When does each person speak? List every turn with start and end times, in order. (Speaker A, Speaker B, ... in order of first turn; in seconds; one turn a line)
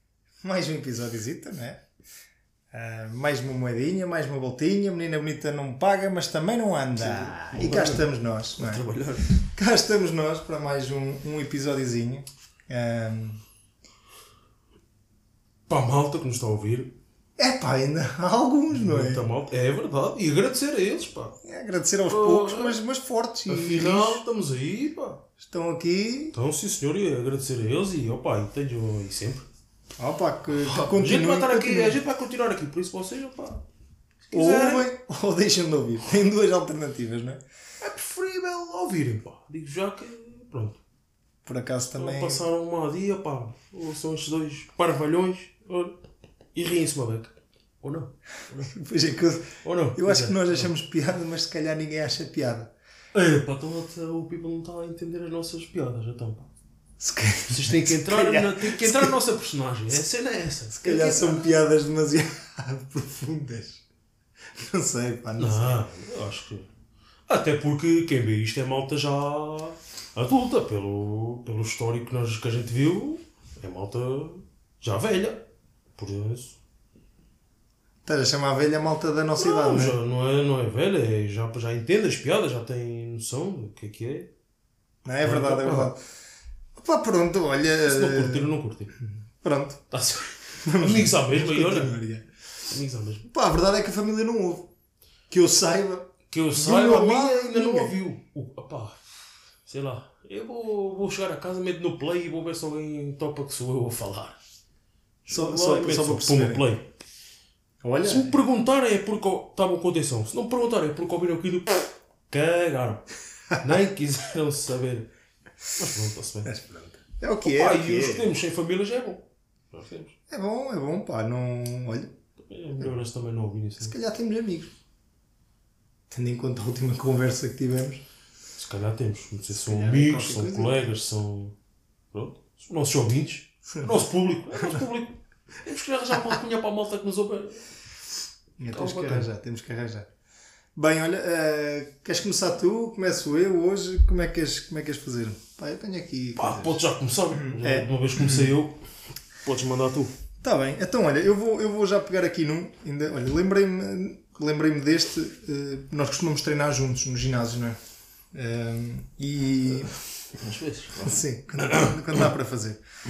Speaker A: 0.4-1.8
Speaker A: 2.7-8.8
Speaker B: 7.0-9.3
Speaker A: 9.4-13.4
Speaker B: 15.7-16.9
Speaker A: 17.4-19.2
Speaker B: 18.7-21.4
Speaker A: 21.4-24.2
Speaker B: 22.1-22.8
Speaker B: 23.5-25.2
Speaker A: 25.4-26.4
Speaker B: 26.3-29.5
Speaker A: 30.0-32.0
Speaker B: 30.6-33.6
Speaker B: 34.3-34.9
Speaker A: 34.3-37.4
Speaker B: 37.8-40.8
Speaker A: 41.4-42.4
Speaker B: 41.9-46.0
Speaker B: 46.5-48.7
Speaker A: 48.6-52.7
Speaker B: 49.6-50.7
Speaker B: 53.1-56.5
Speaker A: 57.0-59.1
Speaker B: 57.5-61.5
Speaker A: 60.7-63.8
Speaker A: 64.6-65.8
Speaker B: 65.4-66.7
Speaker B: 67.3-75.4
Speaker B: 76.0-76.6
Speaker A: 78.0-80.0
Speaker B: 79.3-84.3
Speaker A: 85.0-86.0
Speaker B: 85.2-85.9
Speaker A: 86.8-88.5
Speaker B: 87.8-88.9
Speaker A: 89.4-89.8
Speaker B: 89.9-92.0
Speaker A: 90.6-92.2
Speaker B: 92.7-93.3
Speaker A: 93.3-94.7
Speaker A: 95.3-97.9
Speaker B: 96.3-99.0
Speaker B: 99.6-104.4
Speaker B: 105.2-106.9
Speaker A: 105.3-106.7
Speaker A: 107.8-108.4
Speaker B: 108.0-113.0
Speaker B: 113.6-115.1
Speaker B: 115.7-116.5
Speaker A: 116.4-118.3
Speaker B: 117.4-120.1
Speaker A: 120.3-122.1
Speaker B: 122.4-123.9
Speaker A: 123.8-124.7
Speaker A: 126.1-128.0
Speaker B: 128.6-131.5
Speaker A: 129.5-130.9
Speaker B: 132.1-137.6
Speaker A: 133.7-134.8
Speaker A: 138.6-140.1
Speaker B: 138.7-139.3
Speaker A: 140.7-146.8
Speaker B: 146.4-148.8
Speaker A: 147.3-148.5
Speaker B: 149.4-150.1
Speaker A: 150.4-157.8
Speaker A: 158.3-159.9
Speaker B: 160.3-161.9
Speaker A: 160.9-162.8